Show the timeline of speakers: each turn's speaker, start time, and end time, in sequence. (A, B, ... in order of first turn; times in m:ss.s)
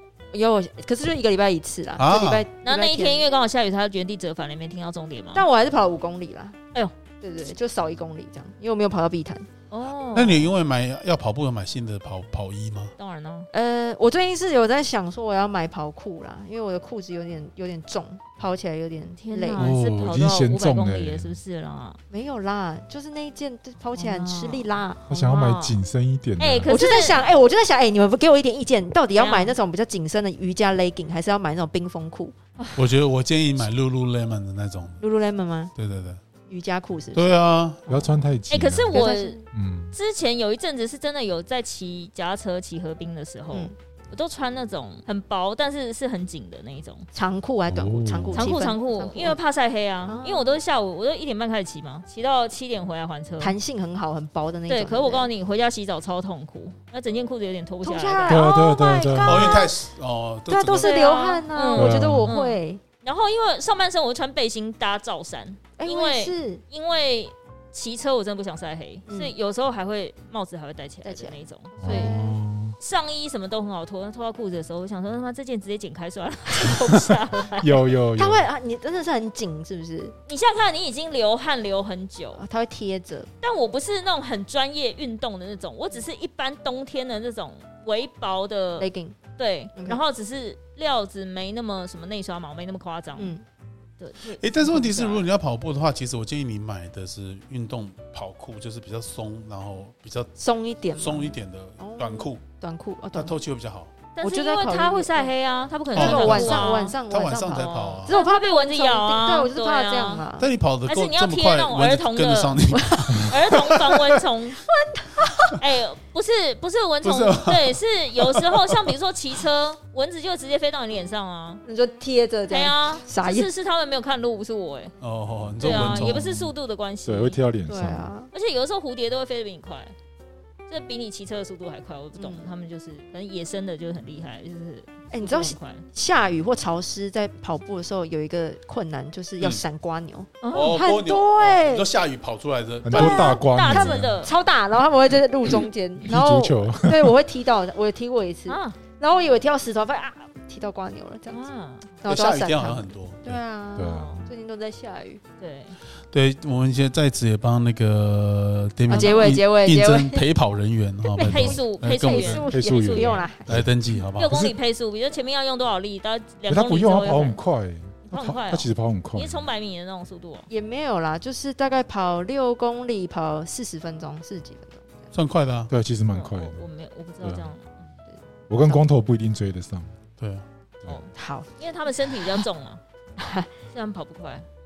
0:00.3-0:03.2 A
0:02.0-0:02.4 B
0:02.6-0:05.4 C
0:05.3-0:06.6 A
0:07.2-0:09.5 A
0:09.7-0:10.5 C
0:10.1-0:12.9 B
0:13.0-0:13.5 C
0:13.5-0:19.6 A
0:19.2-0:22.0 C
0:19.6-0:21.4 D
0:22.1-0:25.0 A
0:24.0-0:25.8 C
0:25.1-0:26.8 D
0:26.4-0:27.2 C
0:26.7-0:32.3 A
0:29.1-0:29.6 C
0:32.8-0:35.0 B
0:35.0-0:35.7 A
0:35.8-0:36.2 B
0:36.5-0:37.3 A
0:37.1-0:37.8 B
0:37.9-0:38.1 A
0:37.9-0:39.9 D
0:38.5-0:39.4 C
0:38.9-0:39.4 A
0:39.9-0:47.0 C
0:43.5-0:43.7 A
0:47.1-0:49.4 A
0:47.7-0:48.6 D
0:48.3-0:53.5 C
0:50.0-0:50.5 A
0:53.4-0:55.3 A
0:54.7-0:58.5 C
0:57.8-0:59.8 A
0:58.3-0:59.7 D
0:59.2-1:01.0 B
1:00.5-1:02.8 A
1:00.8-1:12.1 C
1:01.7-1:02.3 D
1:05.8-1:06.6 A
1:09.1-1:09.3 A
1:11.0-1:12.4 A
1:11.8-1:12.8 D
1:12.8-1:17.8 C
1:16.6-1:17.4 A
1:17.6-1:18.5 D
1:18.2-1:20.1 A
1:20.3-1:22.4 C
1:22.4-1:23.3 A
1:23.4-1:33.3 C
1:28.8-1:29.2 A
1:29.8-1:30.0 A
1:33.2-1:33.4 A
1:34.0-1:35.2 C
1:34.4-1:40.4 B
1:40.4-1:43.3 A
1:40.9-1:42.4 B
1:43.1-1:43.9 B
1:44.2-1:47.0 C
1:44.2-1:45.3 A
1:45.9-1:48.2 B
1:45.9-1:50.5 A
1:47.5-1:50.2 C
1:50.4-1:54.0 B
1:50.9-1:52.6 C
1:52.7-1:53.3 A
1:53.2-1:54.6 C
1:54.7-1:55.5 A
1:55.6-2:01.6 C
1:57.0-1:58.8 B
2:01.6-2:03.5 A
2:02.5-2:04.9 C
2:05.0-2:06.5 B
2:05.6-2:07.4 C
2:07.0-2:08.1 D
2:07.7-2:08.3 A
2:08.3-2:09.9 C
2:10.7-2:15.8 C
2:12.2-2:12.5 A
2:15.1-2:21.9 A
2:20.4-2:20.8 C
2:20.5-2:23.3 B
2:22.8-2:24.1 D
2:22.9-2:31.4 A
2:22.9-2:24.3 C
2:26.0-2:27.2 D
2:28.5-2:28.8 C
2:31.3-2:32.0 C
2:32.0-2:35.2 A
2:32.0-2:33.2 B
2:33.3-2:34.3 D
2:33.8-2:34.2 C
2:35.4-2:35.8 C
2:36.1-2:42.5 B
2:38.9-2:40.2 A
2:38.9-2:39.3 C
2:41.1-2:43.5 A
2:41.2-2:43.3 C
2:42.5-2:44.5 D
2:43.5-2:44.5 B
2:44.2-2:47.4 C
2:46.5-2:49.4 D
2:48.0-2:50.5 C
2:50.5-2:55.1 A
2:55.1-2:55.7 B
2:55.7-2:56.6 D
2:56.1-2:57.8 C
2:57.2-2:57.5 D
2:58.5-2:59.9 D
3:00.2-3:00.4 B
3:00.8-3:02.8 C
3:01.1-3:01.5 A
3:03.2-3:03.5 A
3:03.7-3:04.4 C